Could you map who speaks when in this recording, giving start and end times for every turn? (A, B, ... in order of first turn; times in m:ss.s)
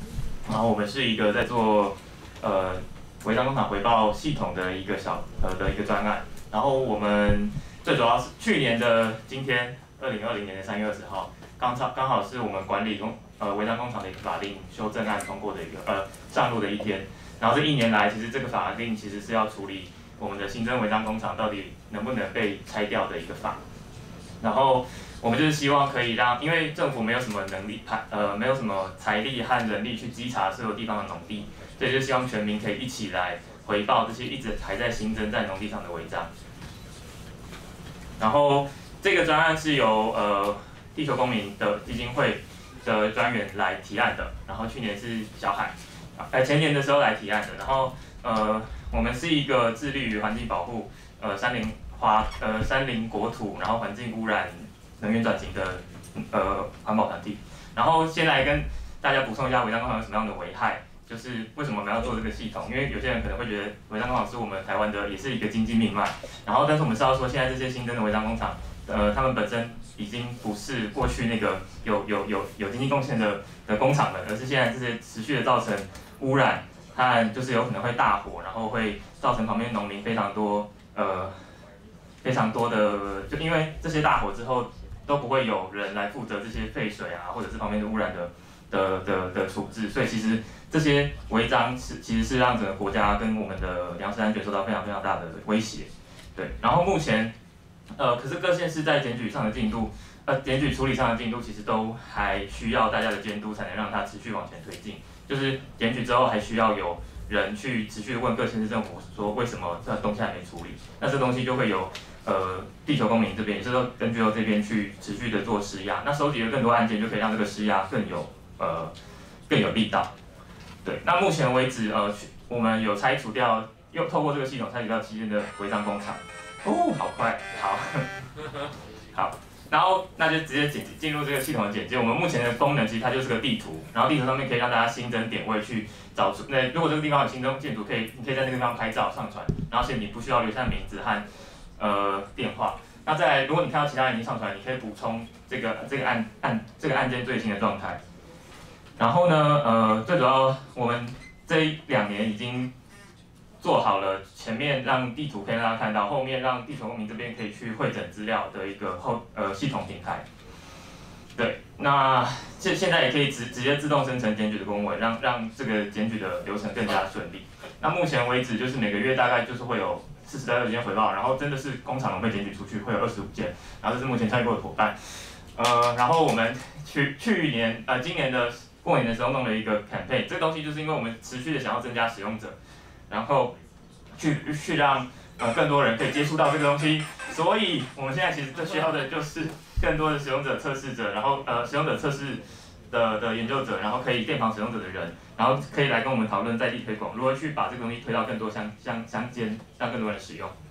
0:00.4-0:23.6 A
0:24.4-0:36.3 A
0:38.2-1:21.3 A
1:22.2-1:37.3 A
1:38.0-1:58.9 A
1:59.5-2:00.1 A
2:00.8-2:08.0 A
2:09.1-2:21.2 A
2:21.8-2:28.0 A
2:29.0-2:32.7 A
2:33.6-2:40.2 A
2:41.4-2:55.0 A
2:55.5-3:02.6 A
3:03.1-3:03.5 A
3:04.2-3:20.5 A